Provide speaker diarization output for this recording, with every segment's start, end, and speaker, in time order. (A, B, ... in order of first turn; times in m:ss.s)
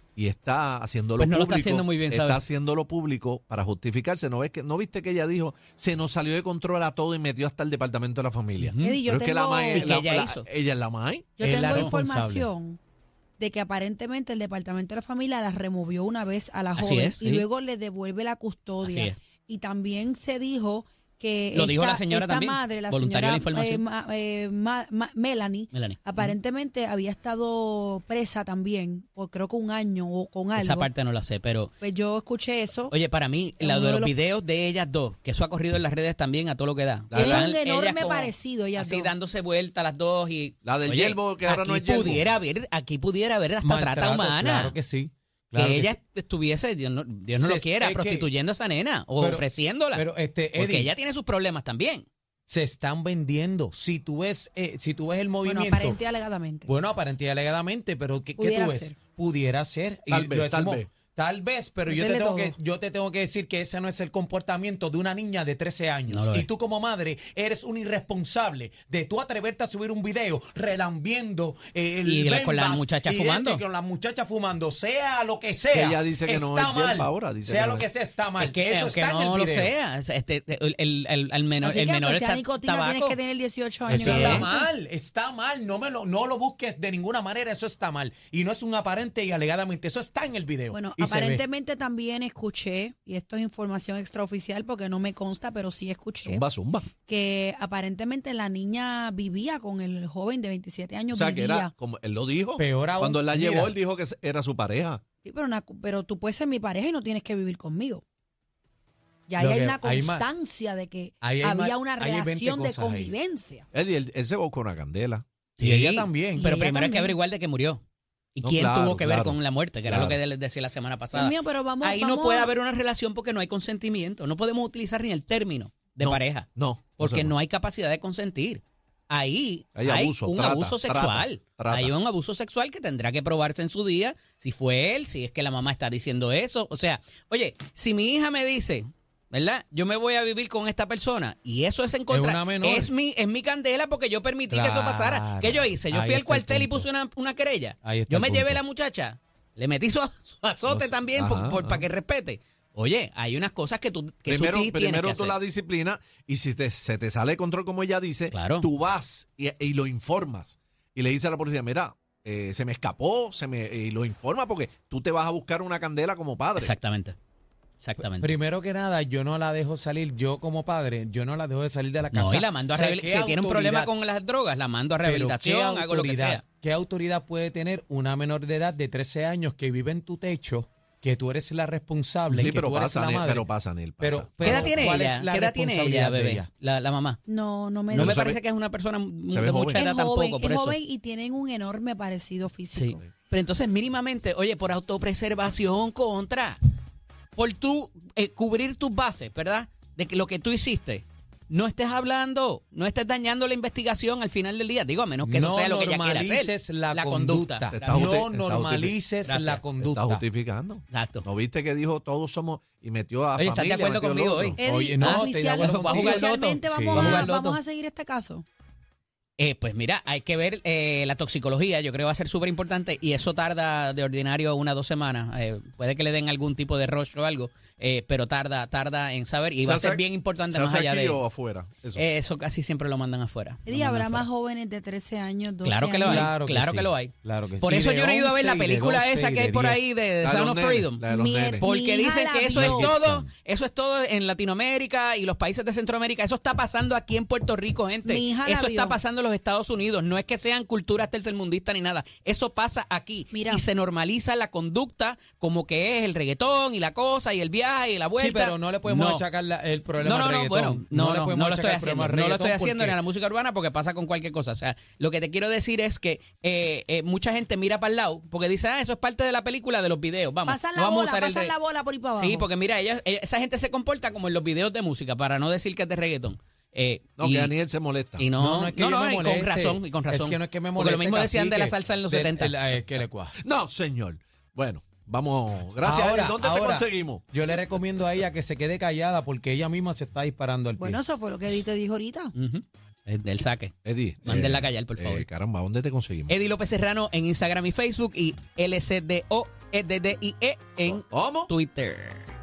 0:00.2-0:11.3 A
0:01.2-0:02.4 B
0:08.6-0:09.0 B
0:08.8-0:09.9 C
0:09.7-0:10.4 B
0:11.4-0:12.8 C
0:11.4-0:12.5 D
0:13.4-0:30.9 C
0:16.8-0:17.4 B
0:18.8-0:19.1 B
0:21.5-0:23.8 B
0:25.7-0:26.3 B
0:30.6-0:31.7 B
0:31.8-0:32.9 C
0:32.9-0:44.7 B
0:33.6-0:34.1 C
0:37.1-0:37.5 A
0:37.1-0:39.1 C
0:40.6-0:42.3 A
0:43.6-0:45.9 D
0:45.6-0:50.0 B
0:47.4-0:48.3 D
0:49.2-0:50.9 D
0:50.6-0:52.0 B
0:52.5-0:56.0 D
0:55.4-0:56.7 C
0:56.7-1:19.7 D
0:58.4-0:59.0 C
1:00.1-1:00.9 A
1:01.9-1:02.5 C
1:06.1-1:06.5 B
1:12.0-1:13.6 B
1:15.7-1:17.9 A
1:18.4-1:23.2 B
1:21.6-1:24.7 C
1:23.9-1:24.5 B
1:23.9-1:31.4 D
1:30.7-1:36.4 C
1:36.2-1:36.9 A
1:37.0-1:41.7 C
1:41.1-1:45.0 A
1:42.6-1:43.7 D
1:45.2-1:48.0 C
1:49.3-1:53.6 C
1:49.4-1:50.3 D
1:51.2-1:53.1 D
1:53.7-1:55.2 A
1:55.6-1:56.4 D
1:55.6-1:57.8 B
1:56.4-1:57.2 C
1:58.4-2:35.4 B
1:58.4-2:00.2 A
2:01.1-2:02.5 C
2:06.0-2:07.3 A
2:09.7-2:11.9 A
2:22.1-2:22.9 D
2:24.5-2:26.9 D
2:27.8-2:28.6 D
2:30.6-2:30.9 D
2:31.1-2:31.9 A
2:34.3-2:46.8 A
2:38.3-2:38.7 B
2:46.6-2:47.2 B
2:47.8-2:48.4 B
2:48.0-2:53.9 D
2:52.1-2:56.4 B
2:55.0-3:03.5 D
3:02.3-3:04.9 A
3:04.0-3:06.5 D
3:04.4-3:07.2 B
3:07.3-3:08.2 C
3:07.9-3:10.8 B
3:07.9-3:08.4 A
3:09.3-3:09.8 A
3:09.7-3:13.0 C
3:12.7-3:16.6 B
3:17.4-3:28.2 B
3:25.2-3:30.2 D
3:27.7-3:29.0 A
3:29.2-3:29.6 B
3:29.8-3:34.6 A
3:30.9-3:31.2 B
3:33.4-3:37.6 B
3:34.6-3:38.4 C
3:34.6-3:37.3 D
3:39.4-3:51.2 B
3:49.6-3:52.1 A
3:52.0-3:54.3 B
3:53.6-3:56.3 C
3:55.6-4:01.0 B
3:56.0-3:59.8 D
4:00.2-4:01.7 A
4:01.1-4:03.0 C
4:01.6-4:19.2 B
4:02.6-4:03.2 A
4:08.0-4:09.0 C
4:13.3-4:13.6 C
4:18.2-4:23.0 D
4:20.0-4:31.6 B
4:30.4-4:32.5 C
4:32.2-4:37.5 B
4:37.2-4:38.2 A
4:38.2-4:42.6 B
4:38.4-4:43.3 D
4:43.4-4:47.3 A
4:45.8-4:51.0 D
4:50.8-4:52.3 C
4:52.4-4:53.7 B
4:53.8-4:56.3 A
4:54.2-4:55.3 B
4:56.3-5:02.3 B
5:00.9-5:01.5 A